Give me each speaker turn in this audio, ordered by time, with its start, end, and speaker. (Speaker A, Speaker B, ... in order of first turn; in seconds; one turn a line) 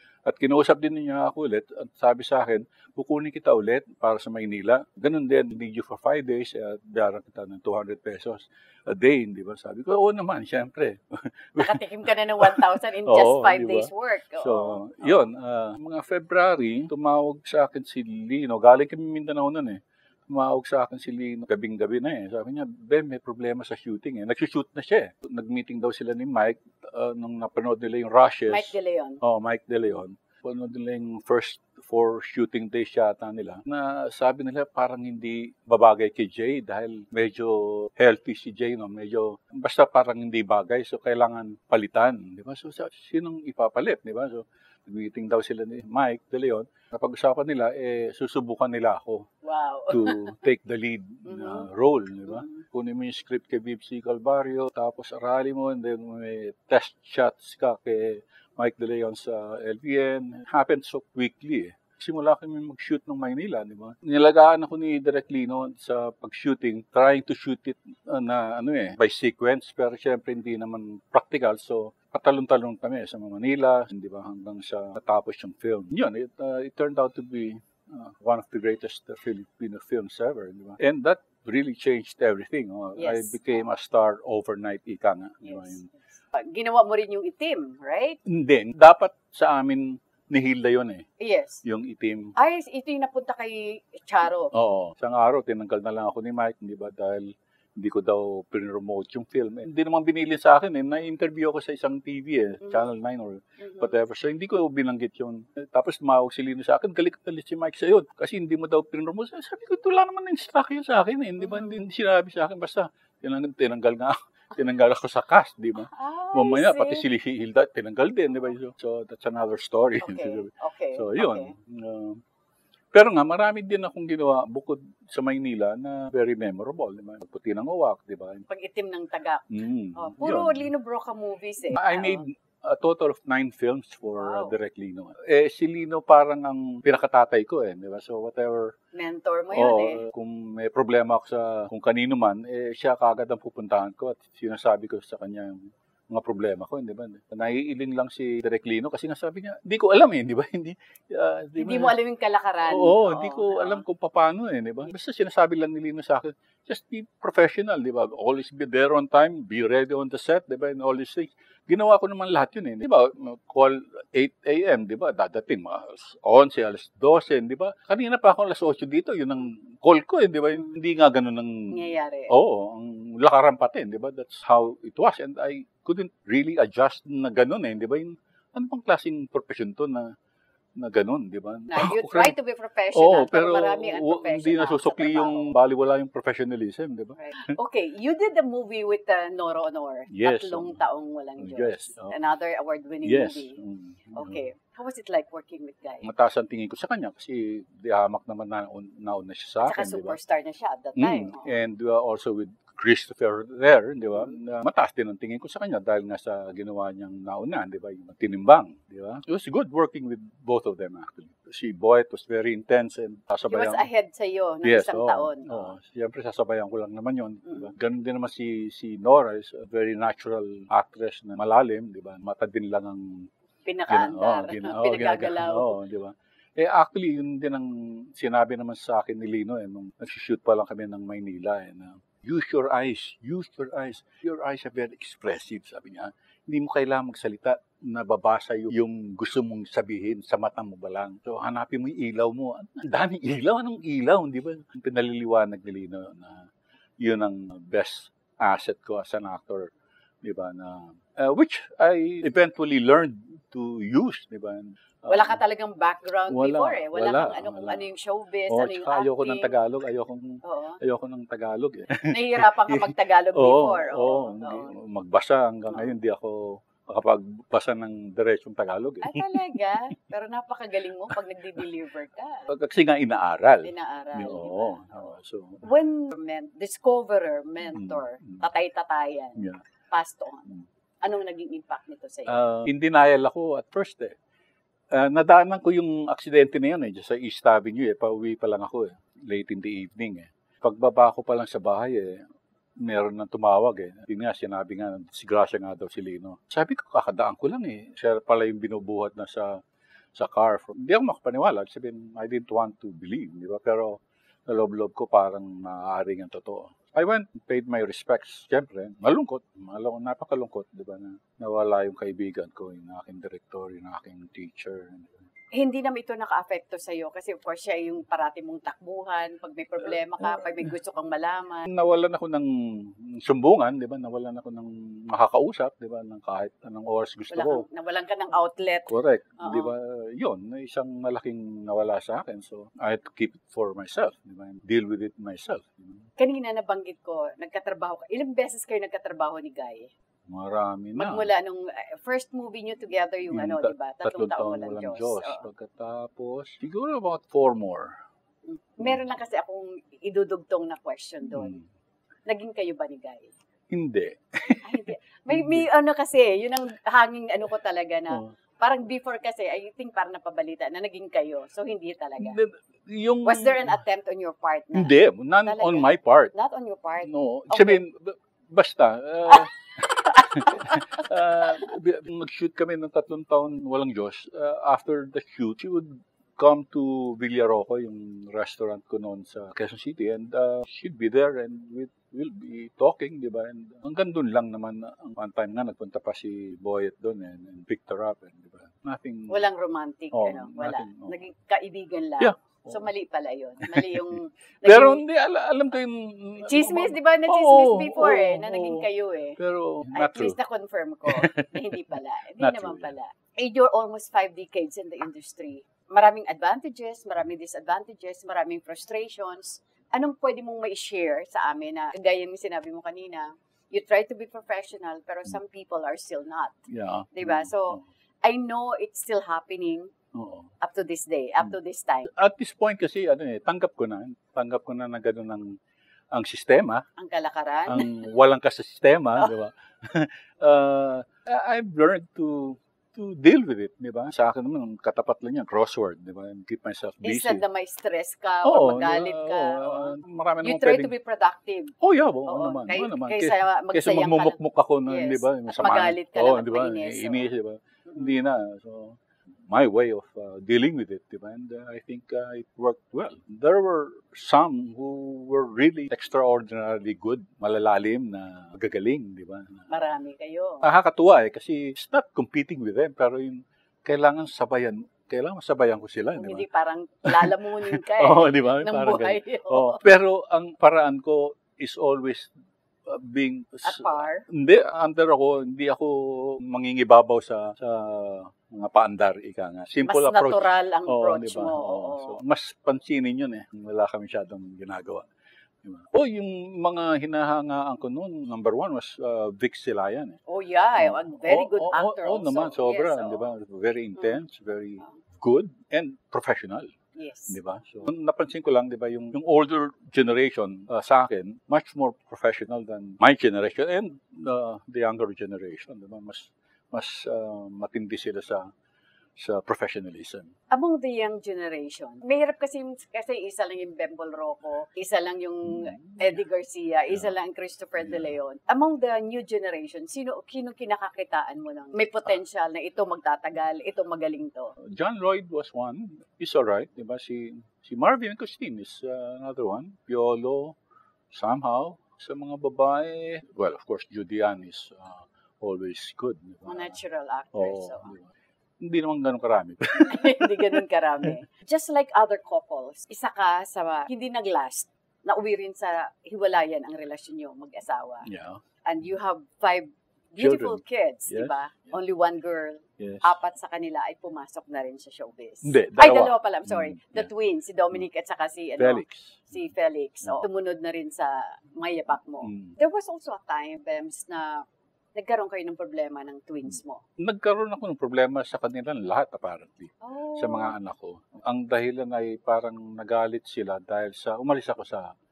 Speaker A: 0.3-11.8
Speaker B: 11.6-15.2
Speaker A: 12.4-49.3
Speaker B: 28.5-29.2
Speaker B: 49.4-50.3
Speaker A: 49.9-85.9
Speaker B: 51.3-51.7
Speaker B: 52.3-52.6
Speaker B: 83.0-83.4
Speaker B: 85.5-85.8
Speaker B: 86.3-88.2
Speaker A: 88.3-91.1
Speaker B: 91.2-91.6
Speaker A: 91.6-92.3
Speaker B: 92.4-94.5
Speaker A: 94.5-122.2
Speaker B: 103.6-103.9
Speaker B: 111.4-111.7
Speaker B: 115.9-117.1
Speaker B: 120.0-121.5
Speaker A: 122.9-128.5
Speaker B: 128.5-132.2
Speaker A: 129.5-130.7
Speaker A: 131.7-138.8
Speaker B: 134.2-134.6
Speaker B: 138.9-140.0
Speaker A: 139.5-151.9
Speaker B: 151.6-153.8
Speaker A: 152.7-180.1
Speaker B: 171.7-172.3
Speaker A: 180.8-182.3
Speaker B: 181.7-185.5
Speaker A: 182.9-187.6
Speaker B: 187.2-193.6
Speaker A: 190.1-190.8
Speaker A: 191.4-192.1
Speaker A: 193.0-194.4
Speaker B: 194.2-196.1
Speaker A: 196.0-200.2
Speaker B: 199.6-201.5
Speaker A: 201.0-213.9
Speaker B: 213.5-215.7
Speaker A: 214.6-223.3
Speaker B: 223.7-225.8
Speaker A: 223.9-246.5
Speaker A: 247.0-249.7
Speaker A: 250.2-255.4
Speaker B: 255.1-259.5
Speaker A: 256.3-257.9
Speaker A: 258.5-269.4
Speaker B: 260.4-260.8
Speaker B: 262.1-264.7
Speaker B: 269.0-272.5
Speaker A: 272.5-275.7
Speaker B: 273.6-274.9
Speaker B: 275.6-280.5
Speaker A: 277.7-278.4
Speaker A: 279.4-279.6
Speaker B: 281.0-282.4
Speaker A: 282.3-284.1
Speaker A: 284.9-292.2
Speaker A: 292.8-299.6
Speaker A: 300.1-315.2
Speaker B: 315.5-321.7
Speaker A: 320.2-320.7
Speaker A: 321.7-327.6
Speaker B: 327.3-329.7
Speaker A: 328.9-336.1
Speaker B: 336.2-339.9
Speaker A: 340.3-341.3
Speaker B: 341.0-345.4
Speaker A: 343.3-347.9
Speaker B: 348.5-351.6
Speaker A: 351.4-351.6
Speaker B: 352.3-353.3
Speaker A: 353.7-355.6
Speaker B: 354.6-362.4
Speaker A: 362.2-363.8
Speaker B: 363.2-367.8
Speaker A: 364.7-366.3
Speaker A: 367.0-389.5
Speaker B: 370.1-370.8
Speaker B: 389.3-395.0
Speaker A: 390.1-391.2
Speaker A: 392.2-392.8
Speaker A: 393.6-400.4
Speaker B: 396.4-399.4
Speaker B: 399.9-416.6
Speaker A: 401.1-402.9
Speaker A: 416.7-417.8
Speaker B: 417.1-419.9
Speaker A: 420.1-420.5
Speaker B: 420.6-422.1
Speaker A: 422.1-425.6
Speaker A: 426.1-426.9
Speaker B: 427.0-428.0
Speaker A: 427.7-437.4
Speaker B: 437.0-441.8
Speaker A: 438.4-440.9
Speaker A: 441.8-459.7
Speaker B: 442.3-447.3
Speaker B: 459.7-460.6
Speaker A: 460.6-466.5
Speaker B: 466.2-469.8
Speaker A: 467.1-472.3
Speaker A: 472.9-485.1
Speaker B: 473.6-474.2
Speaker B: 479.9-482.2
Speaker A: 485.6-490.2
Speaker B: 490.3-493.3
Speaker A: 490.8-496.7
Speaker B: 497.0-497.4
Speaker A: 497.3-508.5
Speaker A: 509.2-510.3
Speaker B: 510.5-524.5
Speaker A: 515.5-516.0
Speaker A: 517.8-518.1
Speaker A: 524.6-530.6
Speaker A: 531.1-536.8
Speaker B: 536.5-537.9
Speaker A: 537.3-541.2
Speaker B: 539.8-548.1
Speaker A: 548.0-548.4
Speaker B: 548.6-564.4
Speaker A: 550.2-551.7
Speaker A: 552.8-553.1
Speaker A: 555.4-557.1
Speaker A: 558.6-559.3
Speaker A: 562.2-562.5
Speaker B: 565.0-566.8
Speaker A: 567.0-574.9
Speaker B: 569.8-570.5